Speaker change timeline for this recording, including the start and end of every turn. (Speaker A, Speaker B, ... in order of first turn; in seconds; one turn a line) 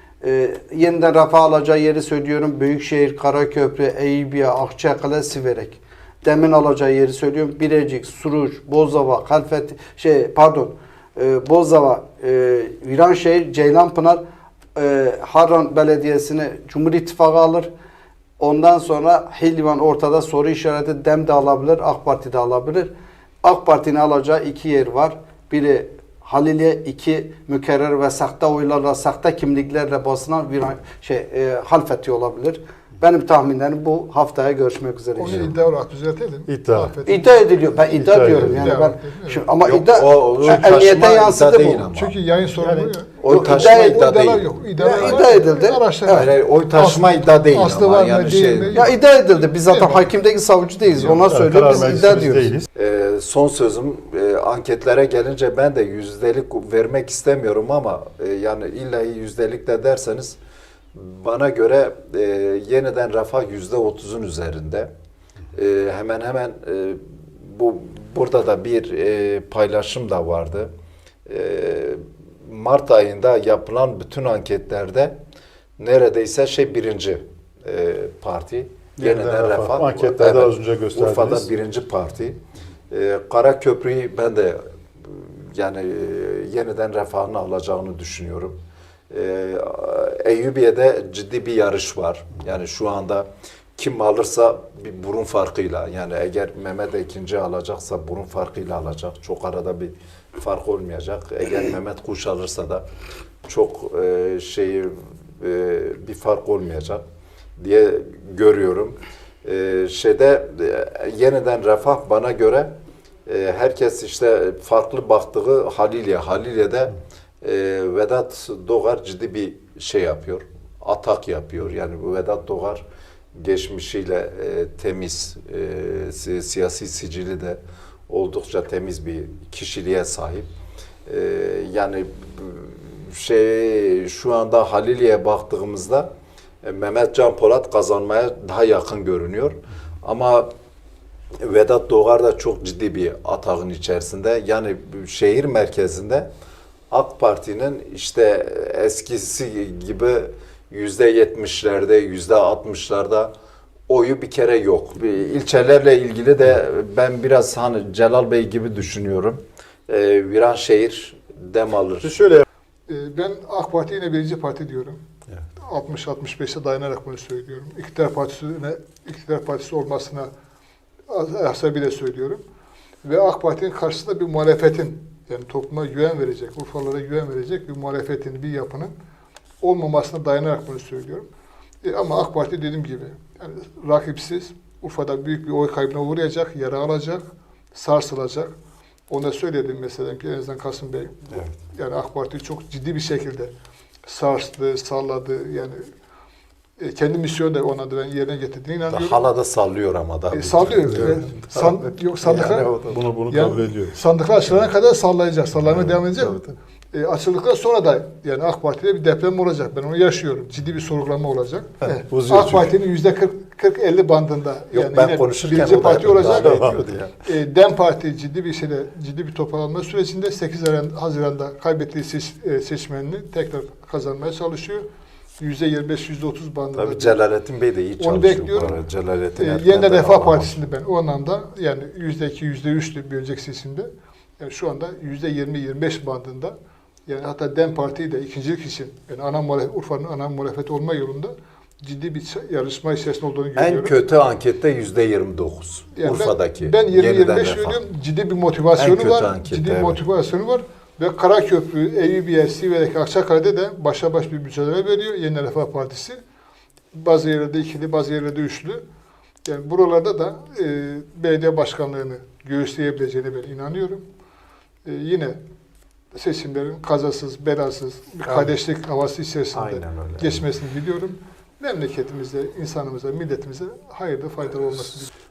Speaker A: 0.2-14.2
Speaker A: 14.8-17.7
Speaker A: 18.4-22.9
Speaker A: 23.4-35.5
Speaker B: 35.2-37.4
Speaker C: 36.5-36.9
Speaker A: 37.1-41.9
Speaker C: 37.9-38.7
Speaker B: 38.1-39.5
Speaker D: 39.6-42.1
Speaker B: 41.9-50.1
Speaker C: 42.6-43.0
Speaker D: 43.2-44.5
Speaker A: 43.3-44.1
Speaker A: 44.8-46.3
Speaker D: 45.0-45.2
Speaker D: 46.1-48.9
Speaker A: 48.7-52.6
Speaker C: 50.9-52.7
Speaker D: 52.8-60.4
Speaker D: 60.9-64.9
Speaker D: 65.5-70.7
Speaker D: 71.3-75.2
Speaker D: 75.8-82.4
Speaker C: 79.0-81.5
Speaker D: 82.9-88.6
Speaker D: 89.1-93.3
Speaker D: 93.8-102.8
Speaker D: 103.5-107.0
Speaker D: 107.6-112.7
Speaker D: 113.3-122.8
Speaker D: 123.4-127.6
Speaker D: 128.1-130.5
Speaker D: 131.1-136.1
Speaker D: 136.6-140.5
Speaker D: 141.4-146.3
Speaker D: 146.9-153.3
Speaker D: 153.9-162.2
Speaker C: 162.0-162.4
Speaker B: 162.9-165.0
Speaker B: 165.6-170.3
Speaker B: 171.1-172.4
Speaker B: 173.0-178.9
Speaker B: 179.6-181.3
Speaker B: 181.8-188.5
Speaker B: 189.1-193.5
Speaker B: 194.1-195.8
Speaker B: 196.8-199.2
Speaker D: 198.9-202.7
Speaker B: 200.3-216.7
Speaker C: 202.3-204.0
Speaker C: 211.8-212.7
Speaker D: 214.7-217.2
Speaker C: 216.3-216.8
Speaker B: 217.2-224.9
Speaker B: 225.4-227.2
Speaker D: 226.8-230.6
Speaker B: 228.0-228.8
Speaker B: 229.4-243.9
Speaker D: 243.6-247.8
Speaker B: 245.9-256.2
Speaker D: 248.8-250.0
Speaker B: 256.9-258.8
Speaker B: 259.5-264.1
Speaker B: 264.8-265.4
Speaker B: 266.1-275.1
Speaker D: 268.3-268.5
Speaker D: 269.5-270.4